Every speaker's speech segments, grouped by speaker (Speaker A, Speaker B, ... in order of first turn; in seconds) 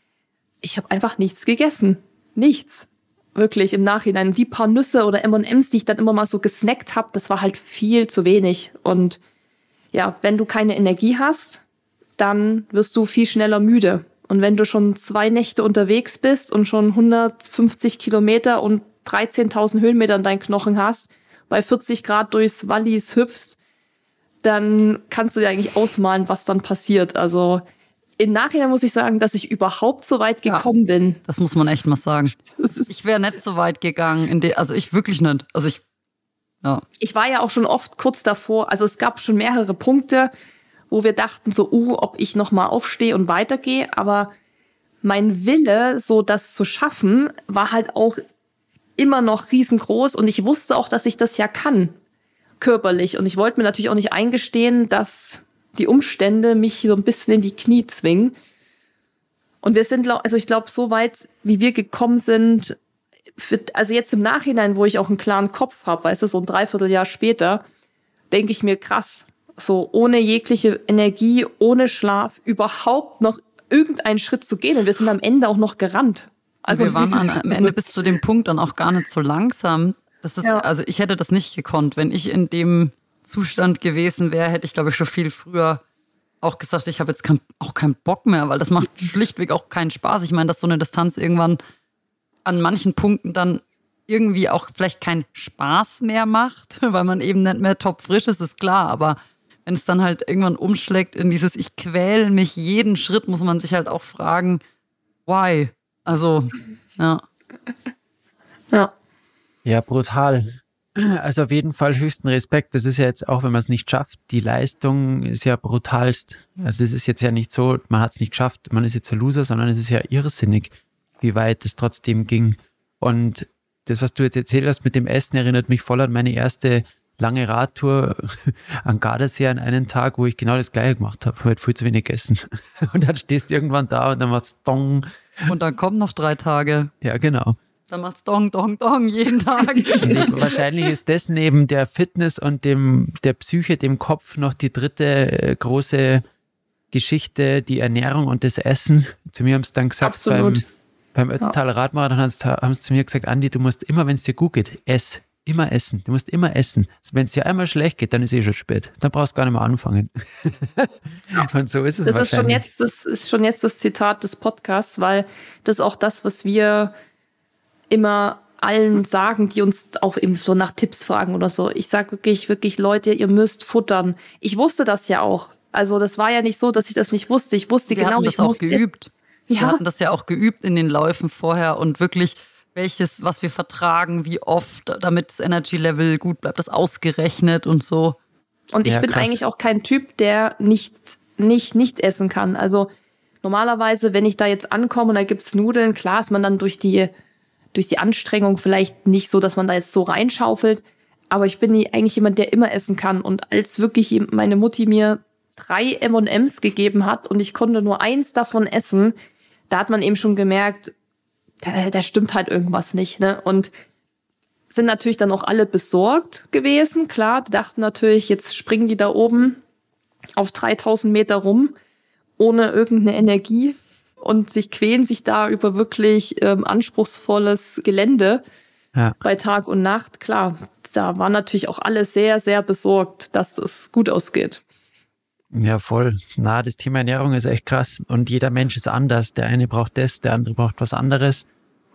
Speaker A: 0.6-9.2, 9.9-11.6, 12.2-23.6, 24.4-27.6, 28.2-31.2, 32.5-32.9, 37.0-40.3, 40.9-44.3, 45.0-48.2, 49.0-52.0, 52.6-58.4, 59.6-62.8, 63.4-67.6, 68.3-78.0, 150.0-150.7, 162.1-166.9, 167.9-178.8, 179.5-179.8, 188.7-192.9, 193.4-197.1, 197.7-209.2, 209.7-210.9, 211.6-213.7, 214.7-219.6, 220.4-221.7, 222.4-228.4, 229.2-234.6
Speaker B: 31.3-32.4, 32.9-35.8, 76.7-85.8, 86.4-91.6, 92.5-104.6, 105.3-107.2, 135.5-136.9, 137.9-140.5, 177.9-188.2
Speaker C: 109.7-135.5, 137.0-137.6, 140.0-146.2, 146.9-162.6, 188.8-189.4, 235.5-241.5